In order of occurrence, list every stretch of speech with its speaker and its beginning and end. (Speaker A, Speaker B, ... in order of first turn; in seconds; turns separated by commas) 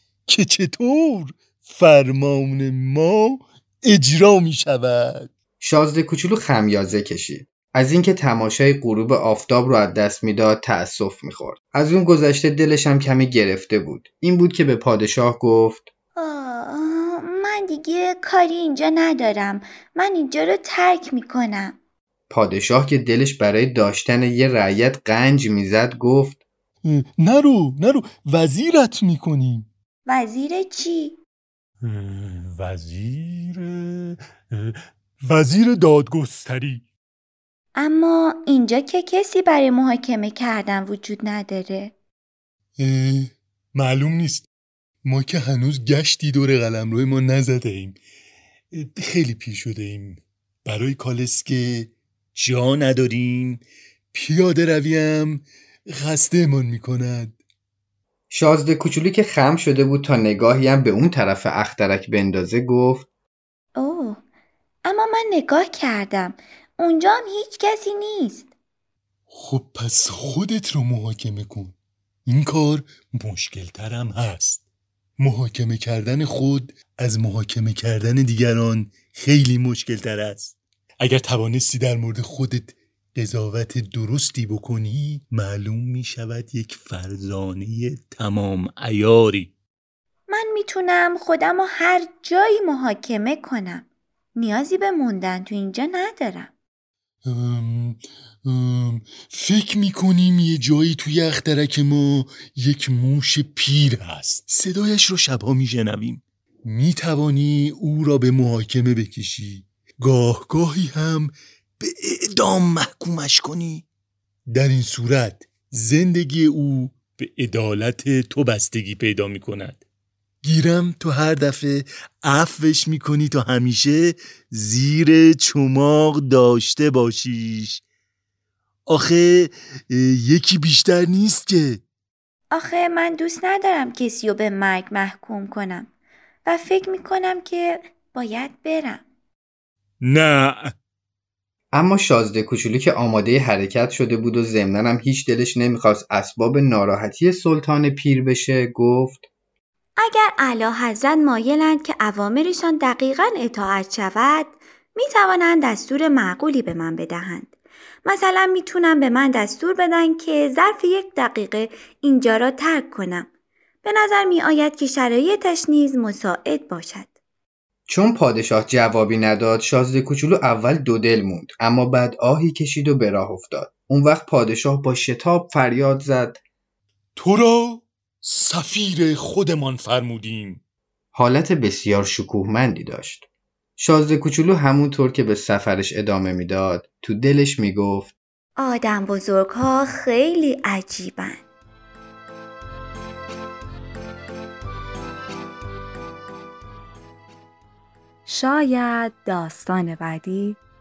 Speaker A: 0.3-5.3, Speaker B: 5.6-15.9, Speaker C: 16.1-21.8, Speaker B: 22.3-26.4, Speaker A: 26.8-29.6, Speaker C: 30.0-31.2, Speaker A: 31.8-36.8, Speaker C: 37.7-41.9, Speaker A: 42.8-44.5, Speaker A: 45.0-48.0, Speaker A: 48.7-57.4, Speaker B: 58.3-63.1, Speaker C: 63.8-64.2, Speaker C: 64.8-68.5, Speaker A: 69.3-71.7, Speaker A: 72.2-74.6, Speaker A: 75.2-89.5, Speaker C: 90.3-96.5, Speaker A: 97.2-113.8, Speaker A: 114.5-119.8, Speaker A: 120.4-127.8, Speaker A: 128.9-131.8, Speaker C: 132.5-135.9, Speaker C: 136.4-139.0, Speaker A: 140.0-140.7, Speaker B: 141.7-149.2, Speaker C: 150.0-163.3, Speaker C: 163.8-167.1, Speaker B: 167.9-176.4, Speaker A: 177.2-180.6, Speaker B: 181.1-183.2, Speaker B: 183.8-188.1, Speaker C: 188.6-191.4, Speaker C: 198.2-200.6